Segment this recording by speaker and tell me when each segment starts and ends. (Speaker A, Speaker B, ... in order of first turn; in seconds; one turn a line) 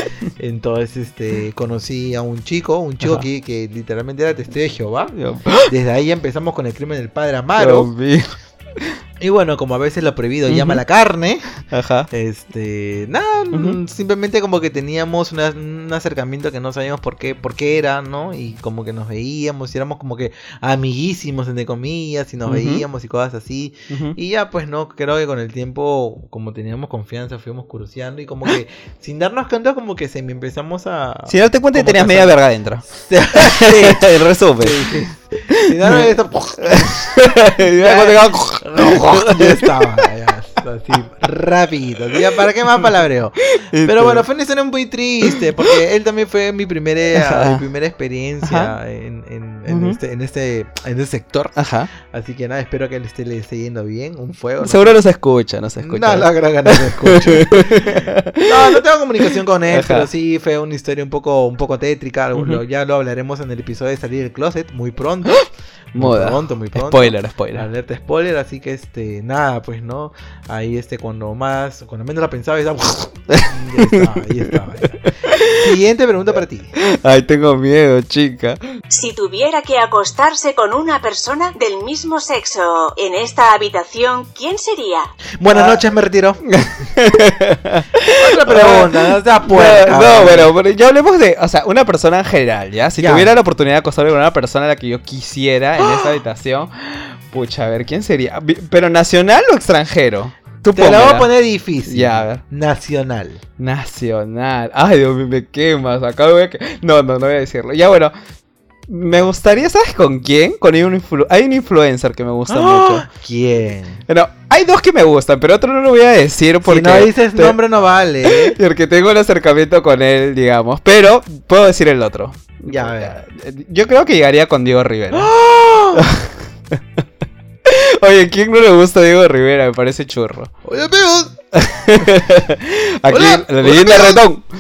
Speaker A: 0.4-5.2
Speaker B: 5.2-5.7
Speaker A: 5.7-7.9
Speaker B: 7.6-8.9
Speaker A: 9.2-11.5
Speaker B: 10.5-10.8
Speaker B: 11.7-12.1
Speaker A: 12.1-32.4
Speaker B: 13.5-13.8
Speaker B: 22.5-22.8
Speaker B: 23.9-24.2
Speaker B: 31.3-34.9
Speaker A: 32.9-34.1
Speaker A: 34.6-55.0
Speaker B: 35.5-36.1
Speaker B: 36.6-40.1
Speaker B: 43.5-44.3
Speaker B: 47.1-47.6
Speaker B: 48.4-48.7
Speaker B: 49.7-50.0
Speaker B: 51.6-51.9
Speaker B: 54.6-58.8
Speaker A: 55.8-76.7
Speaker B: 59.7-60.1
Speaker B: 62.4-62.6
Speaker B: 65.3-67.7
Speaker B: 73.3-74.5
Speaker B: 75.0-75.7
Speaker B: 76.8-78.6
Speaker C: 78.9-85.1
Speaker A: 85.4-86.4
Speaker B: 85.5-85.8
Speaker B: 86.5-101.3
Speaker A: 88.0-90.5
Speaker A: 93.0-93.3
Speaker A: 95.8-96.2
Speaker A: 100.7-103.4
Speaker B: 101.8-102.4
Speaker B: 103.6-108.1
Speaker B: 108.9-113.1
Speaker A: 112.5-114.0
Speaker B: 114.1-117.6
Speaker A: 116.6-118.6
Speaker B: 118.2-125.3
Speaker A: 122.7-123.2
Speaker A: 125.1-126.1
Speaker B: 126.0-126.8
Speaker B: 127.7-130.5
Speaker A: 130.6-131.4
Speaker B: 131.5-134.4
Speaker A: 133.1-134.2